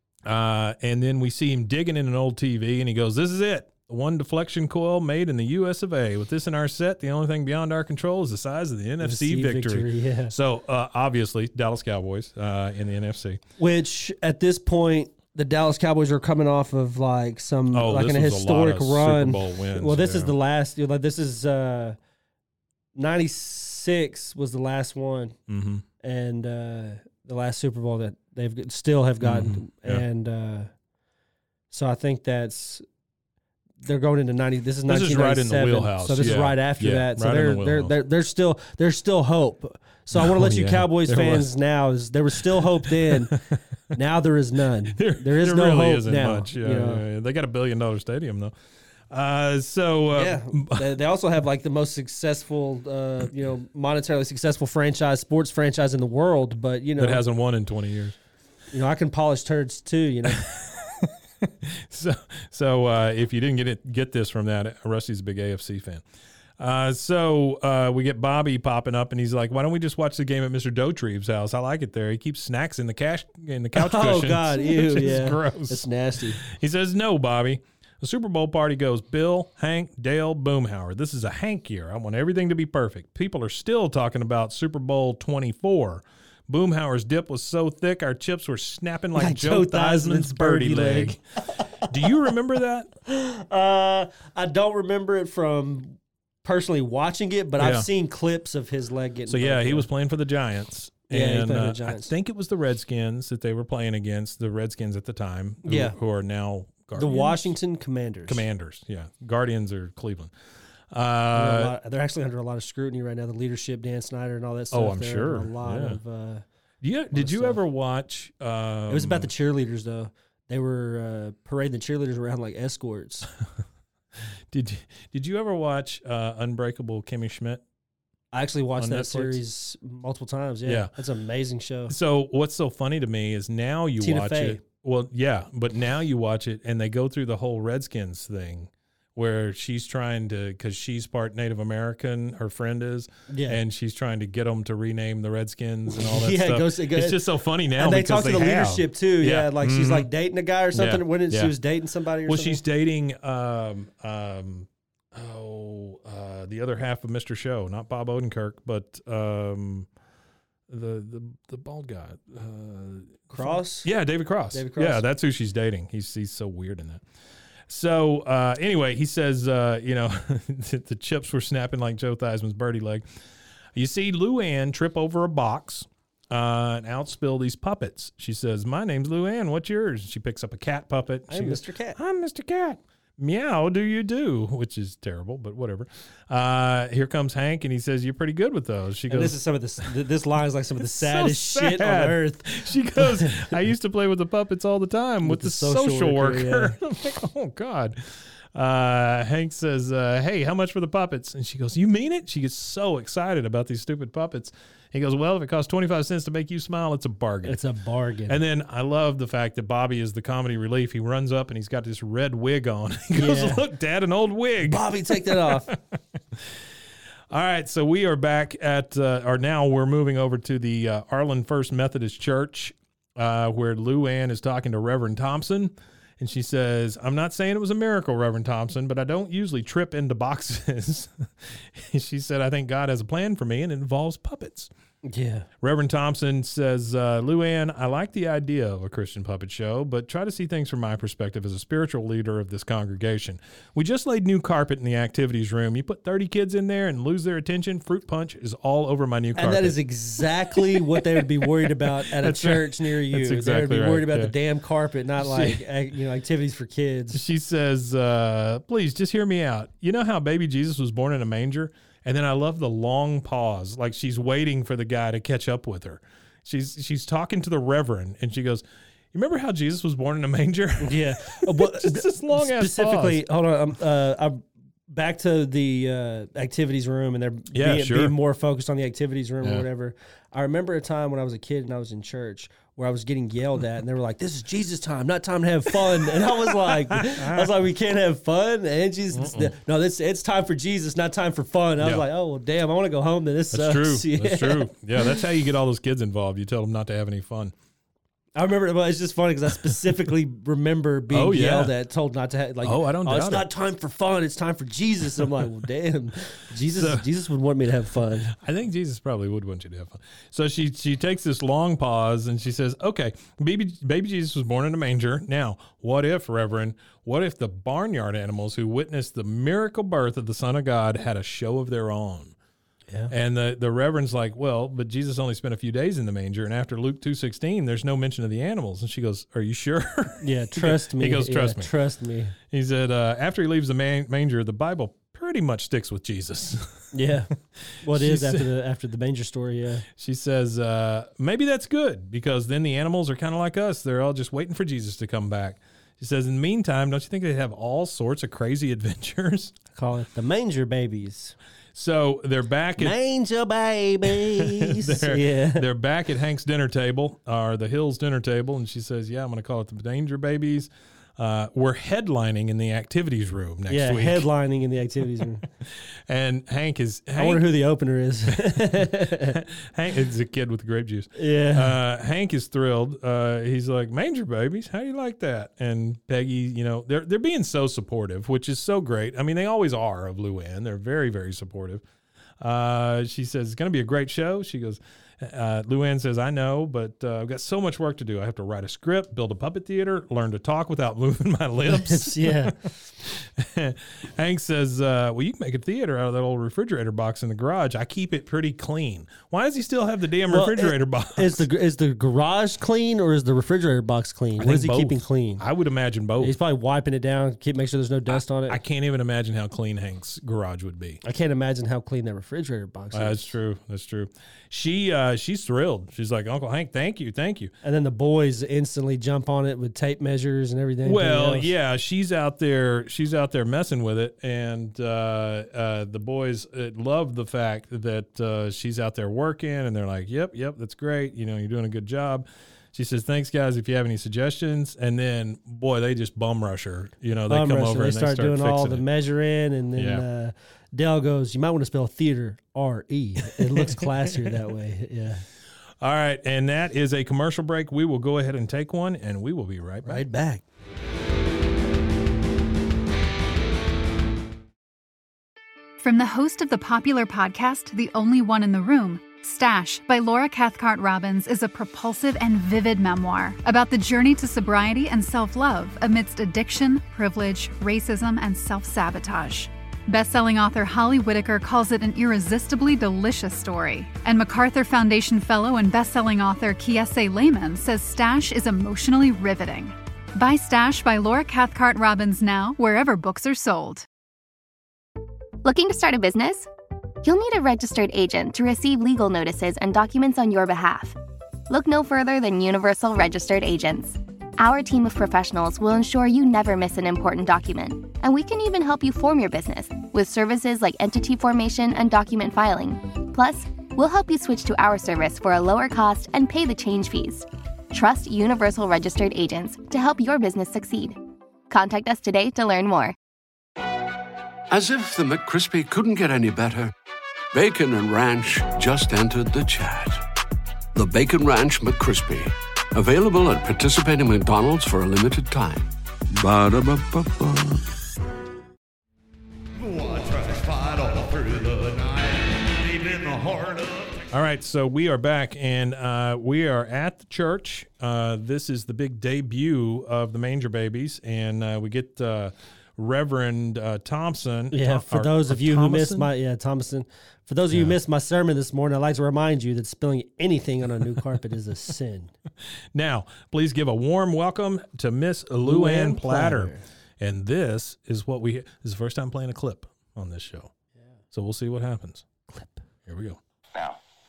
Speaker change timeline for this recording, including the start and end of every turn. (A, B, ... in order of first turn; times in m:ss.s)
0:00.2-0:13.4 A
0:09.0-0:10.3 B
0:13.6-0:22.0 B
0:17.7-0:20.3 A
0:22.9-0:25.4 B
0:25.5-0:25.8 A
0:26.0-0:30.7 B
0:29.2-0:30.0 A
0:31.7-0:32.8 B
0:33.8-0:43.4 B
0:34.8-0:37.9 A
0:40.1-0:41.5 A
0:42.4-0:43.6 A
0:43.9-0:47.0 B
0:44.9-0:48.5 A
0:49.1-0:50.9 A
0:50.1-0:57.2 B
0:57.0-0:58.2 A
0:58.7-1:00.4 B
1:00.3-1:06.0 A
1:06.6-1:15.8 A
1:13.7-1:16.4 B
1:16.4-1:31.2 A
1:29.2-1:31.2 B
1:31.8-1:32.9 A
1:33.1-1:39.9 B
1:37.6-1:37.9 A
1:39.3-1:47.6 A
1:41.1-1:42.1 B
1:45.6-1:45.9 B
1:47.0-1:48.4 B
1:48.3-1:50.3 A
1:50.9-1:51.7 A
1:51.3-1:56.4 B
1:54.7-1:56.0 A
1:56.8-1:59.3 A
1:57.1-1:57.6 B
1:58.9-2:03.3 B
2:04.5-2:07.6 A
2:08.3-2:11.9 B
2:08.8-2:09.4 A
2:10.6-2:10.9 A
2:11.9-2:30.1 A
2:14.0-2:14.6 B
2:23.3-2:23.6 B
2:25.9-2:27.2 B
2:27.8-2:32.6 B
2:30.7-2:31.5 A
2:32.2-2:39.9 A
2:40.7-2:47.0 A
2:43.3-2:43.9 B
2:44.5-2:45.0 B
2:47.7-2:53.0 A
2:53.7-3:09.4 A
3:01.3-3:02.0 B
3:09.1-3:13.5 B
3:10.8-3:27.6 A
3:15.2-3:16.8 B
3:27.4-3:28.4 B
3:28.3-3:36.6 A
3:33.1-3:33.6 B
3:34.6-3:35.7 B
3:37.3-3:54.7 A
3:55.0-3:55.5 B
3:55.6-4:09.8 A
4:09.4-4:17.2 B
4:10.5-4:14.3 A
4:15.2-4:15.6 A
4:17.1-4:33.2 A
4:30.8-4:55.2 B
4:37.5-4:38.1 A
4:45.7-4:47.5 A
4:49.1-4:49.5 A
4:51.8-4:52.0 A
4:53.5-4:57.5 A
4:58.4-5:08.3 B
5:01.1-5:01.7 A
5:02.6-5:03.5 A
5:06.7-5:07.0 A
5:08.3-5:22.3 A
5:23.1-5:31.7 A
5:30.2-5:32.3 B
5:32.5-5:36.9 A
5:36.9-5:37.3 B
5:37.8-5:39.8 B
5:37.8-5:38.5 A
5:39.9-5:49.5 A
5:49.7-5:51.4 B
5:51.7-5:53.0 A
5:52.8-5:55.6 B
5:54.0-6:04.3 A
6:03.7-6:05.4 B
6:06.1-6:07.4 A
6:07.2-6:09.4 B
6:08.3-6:21.8 A
6:11.2-6:11.7 B
6:22.4-6:41.4 A
6:31.6-6:32.6 B
6:40.3-6:45.4 B
6:44.4-6:46.4 A
6:46.2-6:48.6 B
6:48.1-6:51.0 A
6:51.0-6:53.3 B
6:52.9-6:57.5 A
6:57.6-7:01.5 B
7:00.8-7:18.8 A
7:17.3-7:25.2 B
7:19.8-7:20.0 A
7:23.2-7:24.4 A
7:25.8-7:30.0 A
7:29.8-7:30.4 B
7:35.8-8:03.8 C
8:05.4-8:06.5 D
8:07.0-8:11.0 D
8:11.5-8:31.0 D
8:31.5-8:32.9 D
8:34.5-8:36.7 E
8:37.3-8:40.0 E
8:40.7-8:47.7 E
8:49.5-8:54.1 F
8:54.1-9:06.1 A
9:04.5-9:12.1 B
9:07.5-9:07.8 A
9:12.7-9:20.5 A
9:15.4-9:16.6 B
9:21.1-9:22.0 A
9:22.3-9:22.6 B
9:22.8-9:23.2 A